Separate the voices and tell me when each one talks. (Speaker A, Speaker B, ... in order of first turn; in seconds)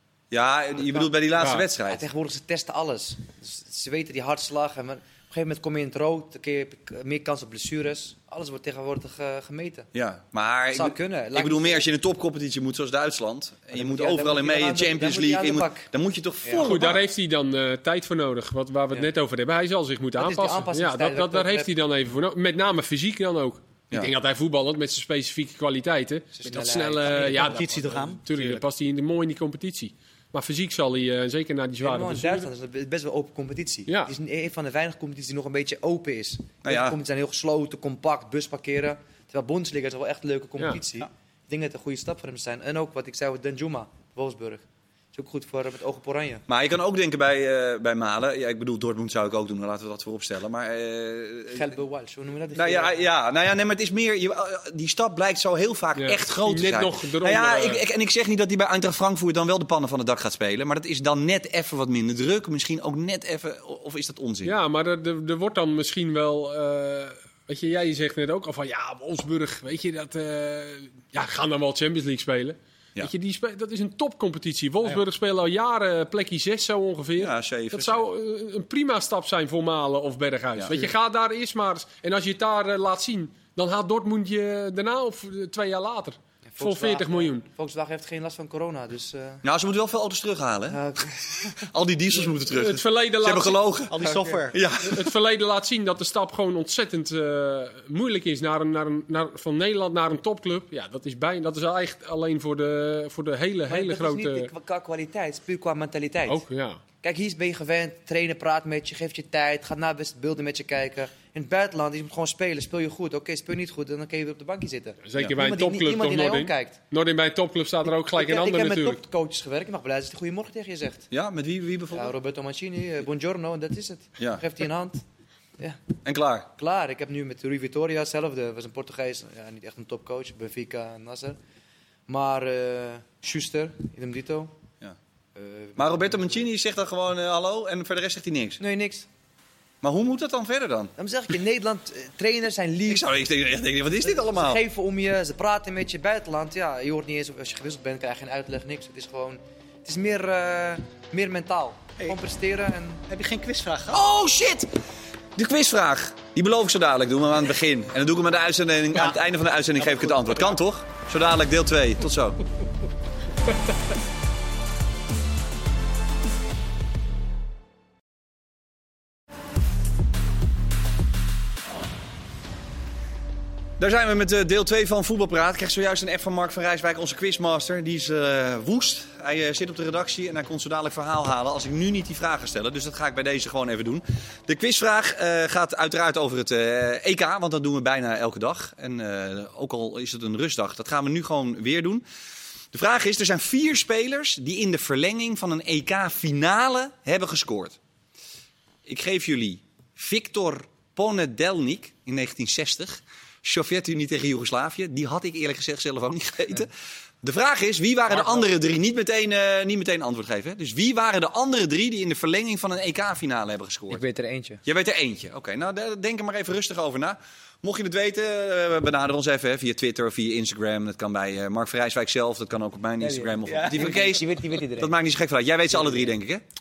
Speaker A: 0.3-2.0, 9.9-17.0, 36.6-37.0, 46.5-51.7, 52.5-64.5, 77.2-78.1, 80.5-80.9, 89.4-90.8, 91.5-95.1, 121.1-122.1, 126.0-126.5, 135.8-138.6, 139.8-140.9, 142.9-144.6, 153.9-154.7, 155.4-162.4, 173.8-192.0, 192.7-197.8, 198.9-214.0, 214.7-226.4
Speaker B: 1.4-1.7, 16.5-32.5, 56.0-57.8, 64.5-87.5, 92.5-93.7, 94.8-104.5, 106.3-106.8, 115.0-119.0
Speaker C: 1.9-9.9, 10.7-11.8, 13.7-15.9, 16.4-16.7, 20.2-21.7, 26.4-27.7, 31.8-46.5, 51.5-53.0, 86.5-89.4, 90.7-91.6, 94.0-94.4, 103.7-106.4, 107.0-116.8, 117.9-121.1, 121.9-125.0, 126.6-131.4, 132.1-134.6, 135.4-136.4, 138.6-139.1, 141.0-143.1, 144.0-153.0, 213.9-214.6, 223.0-224.9
Speaker D: 26.6-28.6, 93.9-94.6, 153.1-154.1, 158.9-159.2, 159.8-160.4, 223.4-224.2